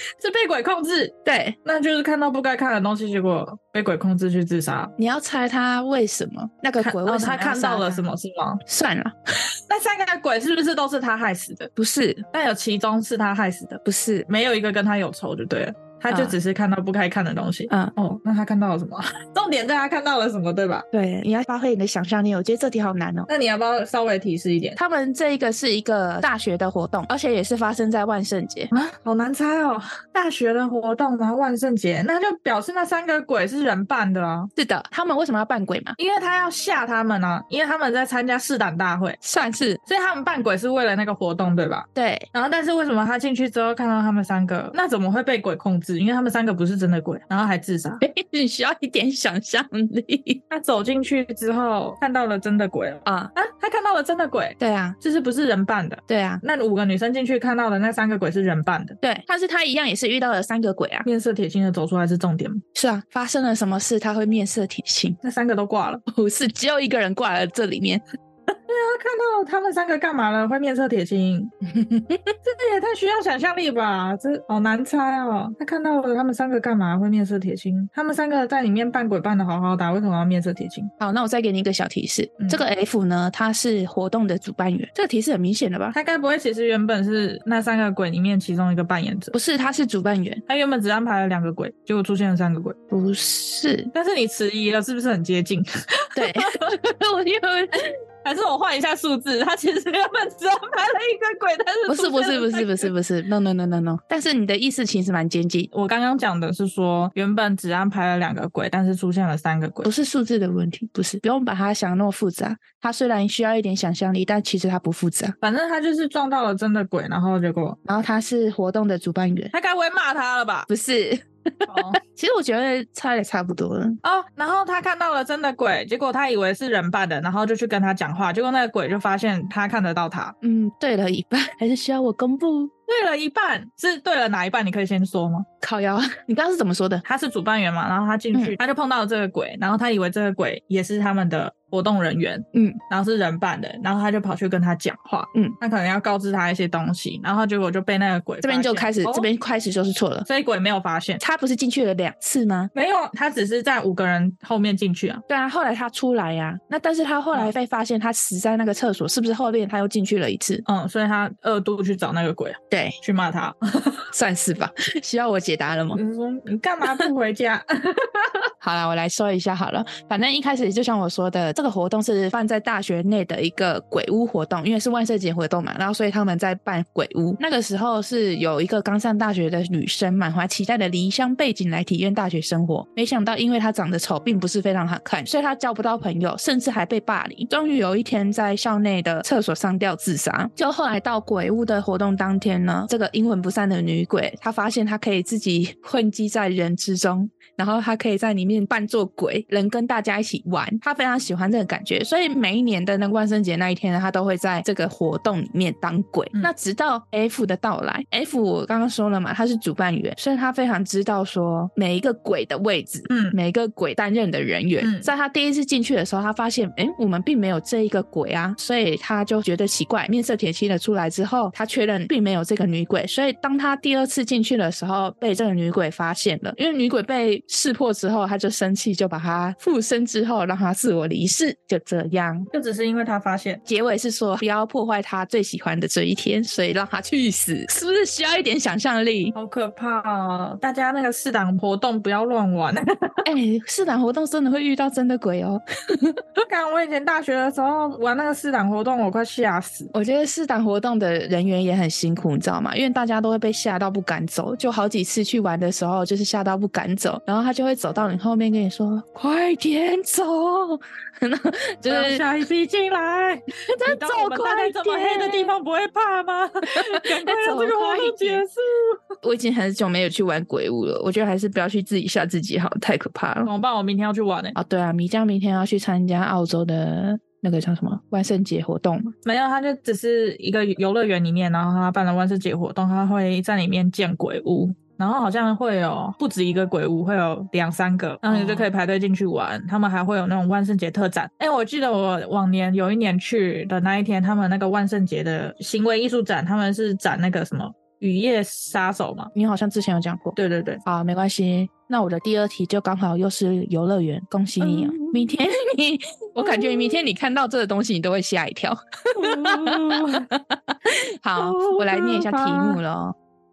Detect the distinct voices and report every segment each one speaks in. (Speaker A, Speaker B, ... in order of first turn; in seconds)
Speaker A: 0.2-4.9, 6.8-8.6, 9.7-11.7, 12.3-20.9, 23.3-24.8, 28.7-34.5, 36.0-39.2, 39.9-48.0, 50.5-59.0, 61.0-62.6, 65.2-66.0, 68.5-71.5, 72.4-80.9, 85.9-89.3, 90.5-92.8, 93.9-96.8, 98.2-102.9, 105.7-109.9, 115.4-117.8, 119.5-120.7, 121.7-122.0, 124.0-130.3, 132.9-135.5, 137.1-149.3, 150.3-151.2, 152.7-155.2, 160.7-164.1, 165.9-168.5, 213.1-213.4, 214.8-215.1, 232.5-233.6, 239.3-243.2, 246.4-249.9, 261.9-269.0, 273.5-274.5, 279.2-299.3, 300.4-300.8, 304.6-305.3, 306.4-307.0, 309.2-310.3, 311.4-312.8
Speaker B: 1.3-1.6, 5.0-8.1, 8.7-9.2, 11.8-12.3, 13.8-14.3, 16.1-16.4, 17.7-17.9, 20.9-23.3, 24.8-28.7, 34.6-36.0, 39.2-39.8, 42.0-42.3, 48.0-50.4, 53.1-53.3, 54.6-55.0, 56.1-56.4, 59.0-61.1, 62.8-65.2, 66.1-68.0, 71.6-72.3, 81.0-86.0, 89.3-90.4, 92.9-93.9, 96.2-97.9, 101.9-105.7, 109.8-115.4, 117.8-119.5, 120.7-124.0, 130.4-132.7, 135.6-137.0, 142.5-142.8, 148.4-150.3, 151.2-152.7, 155.3-160.6, 162.7-163.0, 164.1-166.0, 168.6-232.5, 233.7-239.3, 243.2-246.2, 249.9-262.2, 263.7-265.5, 266.7-268.4, 269.2-273.5, 274.6-279.1, 288.3-288.7, 299.3-313.1